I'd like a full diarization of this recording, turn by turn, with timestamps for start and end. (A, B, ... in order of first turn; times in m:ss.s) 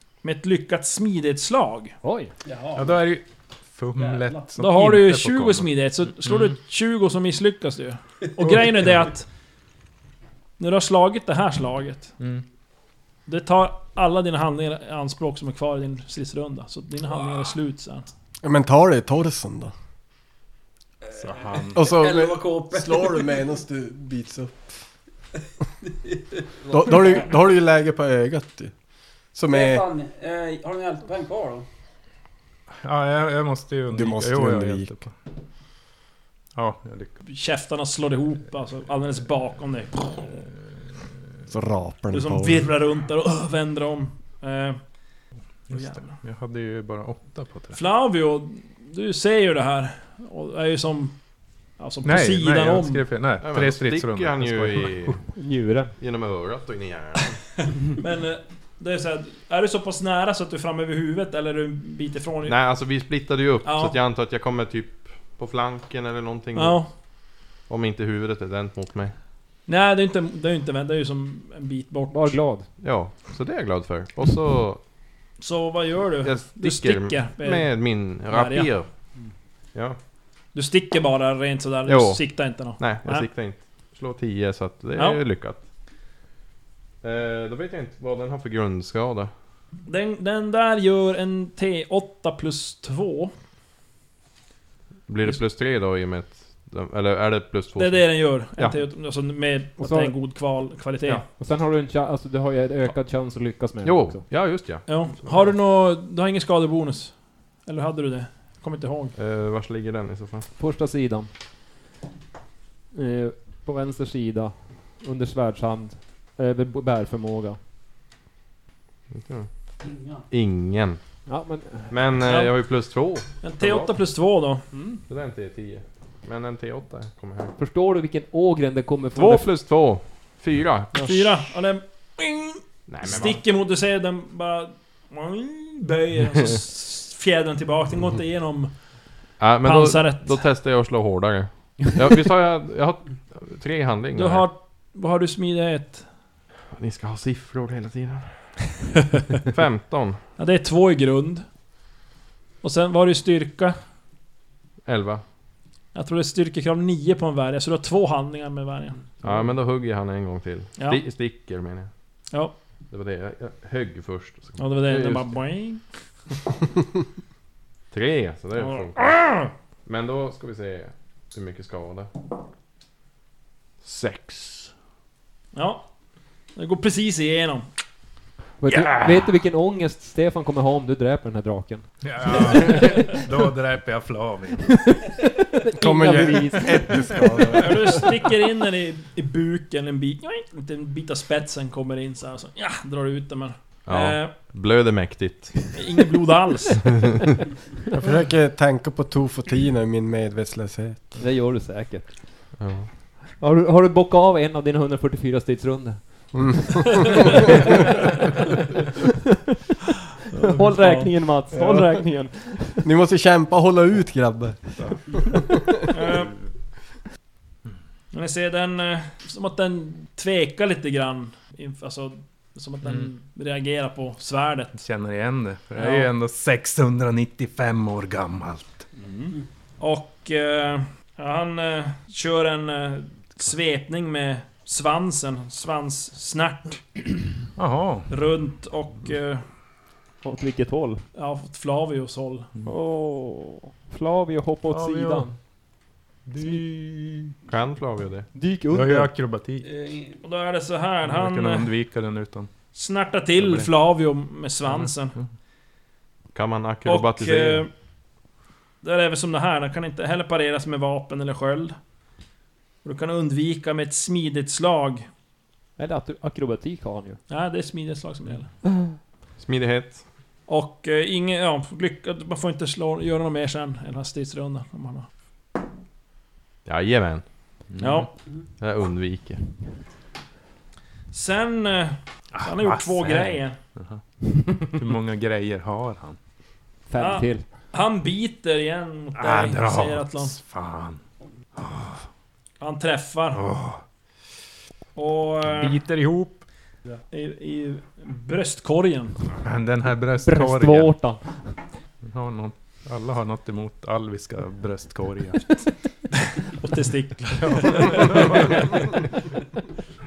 0:00.2-0:02.0 A
0:02.0-0:02.3 B
0:02.4-0:03.0 C
0:02.8-0:05.7 D
0:04.0-0:04.5 C
0:04.6-0:09.3 A
0:06.3-0:06.5 D
0:10.6-0:12.1 A
0:12.2-0:12.4 D
0:13.3-0:18.1 A
0:18.4-0:19.7 E
0:21.1-0:23.4 C
0:21.2-0:21.9 D
0:21.7-0:24.6 E
0:26.6-0:27.3 C
0:26.7-0:28.7 E
0:29.3-0:29.8 E
0:29.5-0:31.7 C
0:32.8-0:35.1 D
0:33.9-0:35.0 E
0:36.6-0:37.2 D
0:37.2-0:40.4 A
0:41.5-0:42.7 E
0:42.1-0:45.0 A
0:45.7-0:47.8 D
0:45.7-0:46.2 A
0:47.7-0:53.1 A
0:52.0-0:55.1 D
0:53.4-0:55.3 F
0:55.2-0:55.9 B
0:56.0-0:57.4 F
0:58.0-1:02.6 A
1:02.5-1:09.2 F
1:03.6-1:04.0 A
1:06.6-1:06.9 A
1:09.7-1:12.4 A
1:12.1-1:12.7 B
1:12.8-1:14.8 F
1:15.4-1:18.7 A
1:16.2-1:18.9 F
1:20.5-1:23.3 A
1:21.9-1:25.7 F
1:25.0-1:25.2 A
1:27.0-1:29.3 F
1:29.9-1:33.3 A
1:35.1-1:38.8 F
1:37.8-1:41.2 A
1:39.8-1:40.2 B
1:41.3-1:44.2 B
1:43.8-1:45.5 F
1:44.9-1:49.2 A
1:49.2-1:50.5 F
1:50.6-1:51.3 B
1:52.9-1:57.6 B
1:59.1-1:59.5 F
1:59.8-2:00.2 C
2:00.3-2:01.0 F
2:01.3-2:02.1 B
2:01.9-2:04.0 F
2:02.3-2:02.5 A
2:03.4-2:04.7 A
2:04.7-2:05.0 B
2:05.1-2:07.6 F
2:07.6-2:09.5 B
2:09.2-2:11.4 F
2:11.0-2:19.0 A
2:12.9-2:13.4 F
2:19.4-2:24.5 F
2:19.6-2:20.5 A
2:24.2-2:26.1 A
2:26.7-2:28.8 F
2:29.4-2:30.2 F
2:30.4-2:31.5 A
2:32.6-2:33.8 A
2:34.8-2:35.2 F
2:35.9-2:39.1 A
2:39.2-2:41.9 F
2:40.8-2:41.0 A
2:42.9-2:45.5 F
2:44.6-2:45.9 A
2:47.9-2:52.1 F
2:48.6-2:49.5 A
2:53.8-2:54.7 F
2:55.5-2:56.0 A
2:56.5-2:57.7 A
2:58.6-3:03.2 B
3:02.0-3:04.8 D
3:04.9-3:07.6 B
3:05.8-3:08.1 E
3:07.6-3:14.4 A
3:13.9-3:15.8 F
3:15.8-3:16.9 A
3:18.0-3:21.2 E
3:21.2-3:22.6 B
3:22.6-3:22.9 F
3:23.4-3:26.7 B
3:26.4-3:27.3 E
3:27.4-3:27.9 B
3:30.3-3:31.1 A
3:30.5-3:32.9 B
3:31.6-3:32.0 E
3:32.8-3:35.4 E
3:34.8-3:35.0 D
3:35.9-3:36.3 A
3:38.1-3:44.8 A
3:42.8-3:43.1 D
3:44.8-3:48.9 D
3:45.8-3:46.1 A
3:49.0-3:57.2 A
3:57.6-3:58.1 D
3:58.1-3:59.4 A
4:00.2-4:01.0 B
4:01.1-4:02.5 A
4:02.6-4:05.3 B
4:04.7-4:05.4 D
4:06.3-4:07.3 D
4:07.5-4:08.3 F
4:08.3-4:09.1 B
4:08.7-4:09.7 D
4:09.6-4:10.2 C
4:10.2-4:11.7 A
4:11.1-4:12.5 D
4:12.7-4:15.2 A
4:13.4-4:13.7 D
4:14.7-4:15.3 D
4:16.3-4:17.6 F
4:16.9-4:17.7 A
4:18.8-4:21.8 A
4:22.8-4:25.1 A
4:25.8-4:27.2 B
4:27.3-4:28.5 A
4:29.4-4:30.0 F
4:30.5-4:35.1 A
4:36.6-4:37.6 F
4:37.7-4:38.1 D
4:37.8-4:38.1 A
4:38.6-4:39.5 F
4:41.1-4:43.6 A
4:42.3-4:44.0 D
4:44.6-4:46.2 D
4:46.9-4:47.5 B
4:47.0-4:50.3 A
4:49.2-4:51.0 D
4:51.6-4:52.1 D
4:52.6-4:53.4 A
4:53.4-4:53.8 D
4:55.0-4:55.8 A
4:55.5-4:56.4 D
4:57.1-4:59.2 A
4:59.3-5:00.9 D
5:00.3-5:01.6 B
5:02.0-5:05.6 D
5:06.5-5:08.7 A
5:07.4-5:08.8 D